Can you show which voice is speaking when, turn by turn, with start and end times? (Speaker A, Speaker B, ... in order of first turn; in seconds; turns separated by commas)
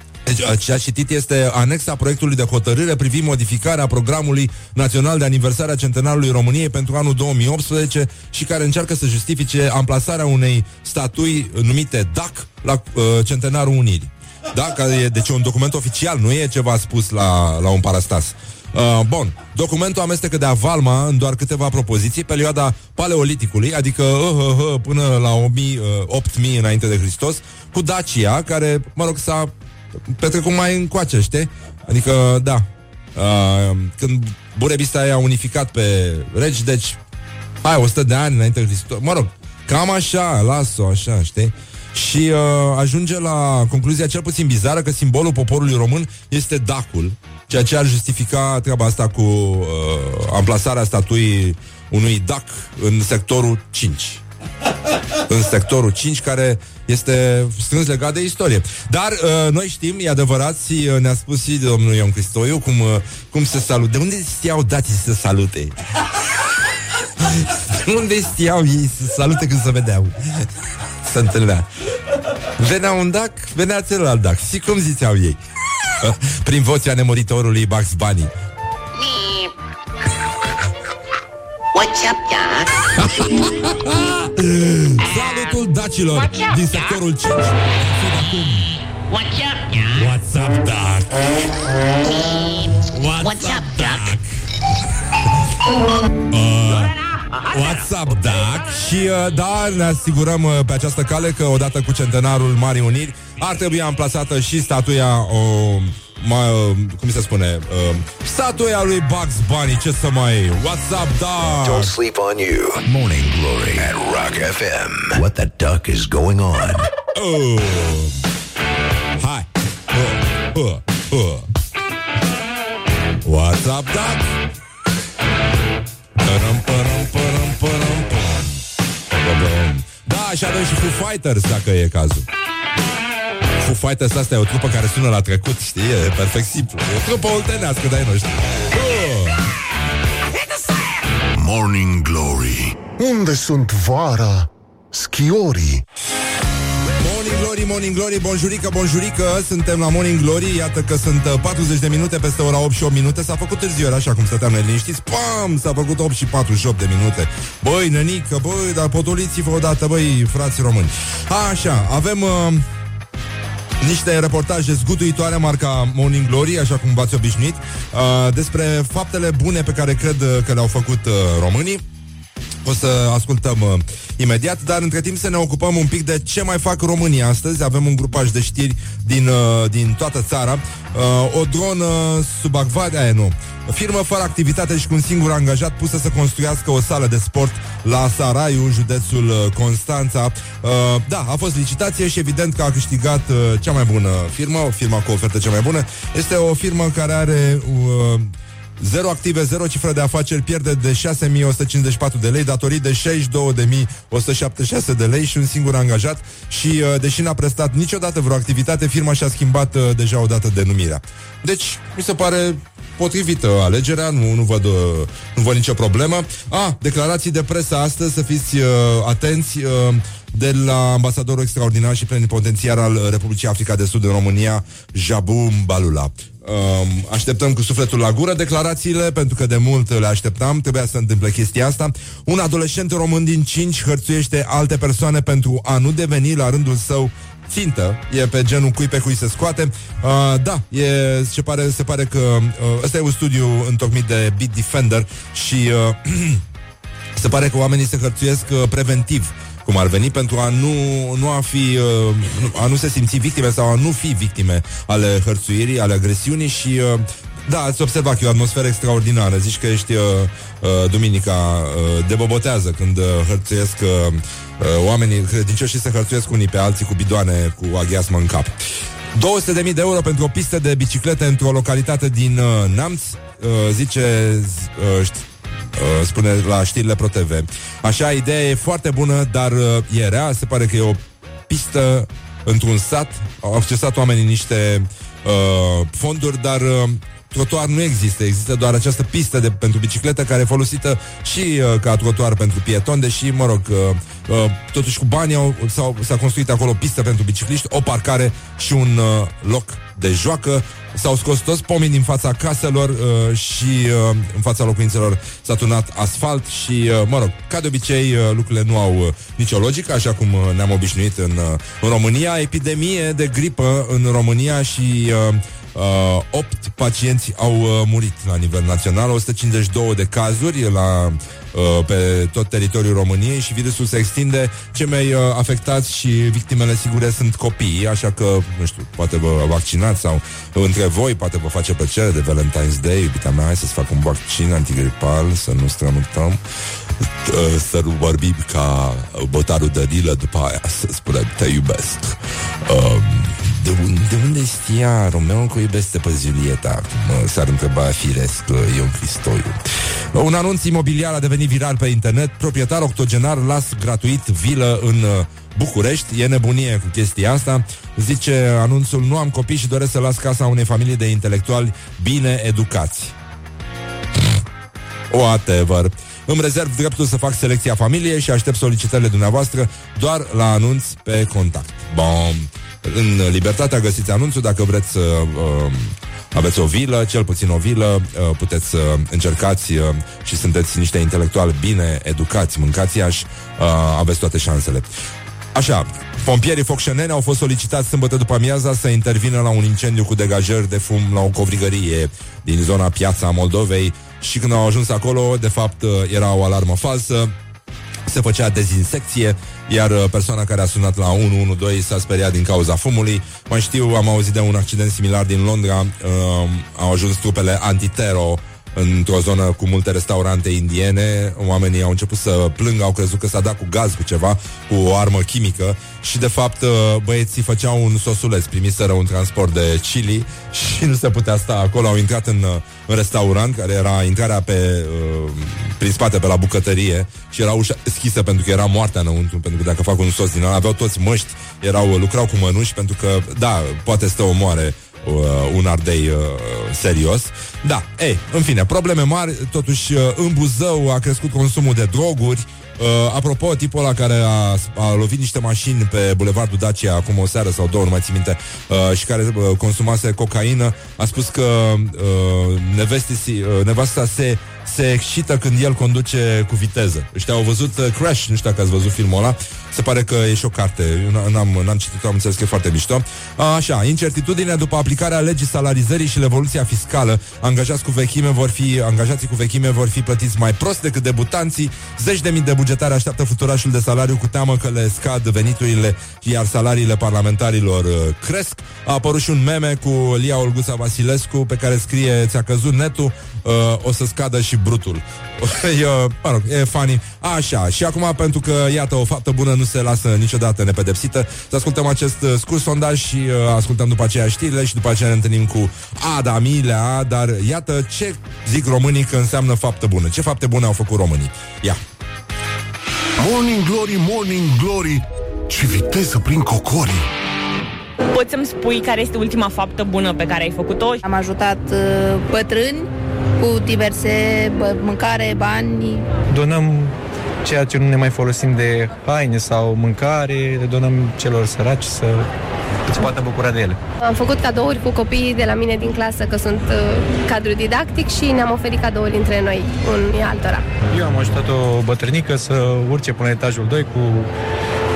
Speaker A: 0.2-29.5, Speaker A: 30.1-37.0, Speaker A: 37.6-54.2, Speaker A: 55.3-65.7, Speaker A: 67.2-70.2, Speaker A: 71.0-71.7, Speaker A: 72.6-75.4, Speaker A: 76.0-78.3, Speaker B: 79.0-79.5, Speaker B: 81.7-82.7, Speaker A: 83.2-88.7, Speaker B: 85.0-85.5, Speaker B: 86.1-87.0, Speaker B: 89.1-90.1, Speaker A: 89.9-91.2, Speaker A: 92.9-94.3, Speaker B: 93.2-94.1, Speaker A: 96.3-96.9, Speaker B: 96.7-97.8, Speaker A: 97.5-111.9, Speaker C: 111.6-116.9, Speaker A: 117.1-118.1, Speaker A: 119.2-121.5, Speaker A: 123.2-124.4, Speaker A: 126.2-132.2, Speaker A: 133.6-139.4, Speaker D: 141.3-145.8, Speaker A: 147.0-162.6, Speaker A: 163.8-171.8, Speaker A: 172.6-246.4, Speaker A: 247.2-268.5, Speaker A: 269.1-336.4, Speaker A: 337.2-349.6, Speaker A: 350.1-363.1, Speaker A: 365.1-384.9, Speaker A: 385.5-397.3, Speaker A: 398.1-501.8, Speaker D: 503.2-507.1, Speaker E: 508.1-511.0, Speaker F: 511.0-516.1, Speaker G: 516.3-522.3, Speaker G: 522.9-523.8, Speaker H: 524.0-530.6, Speaker G: 530.9-534.3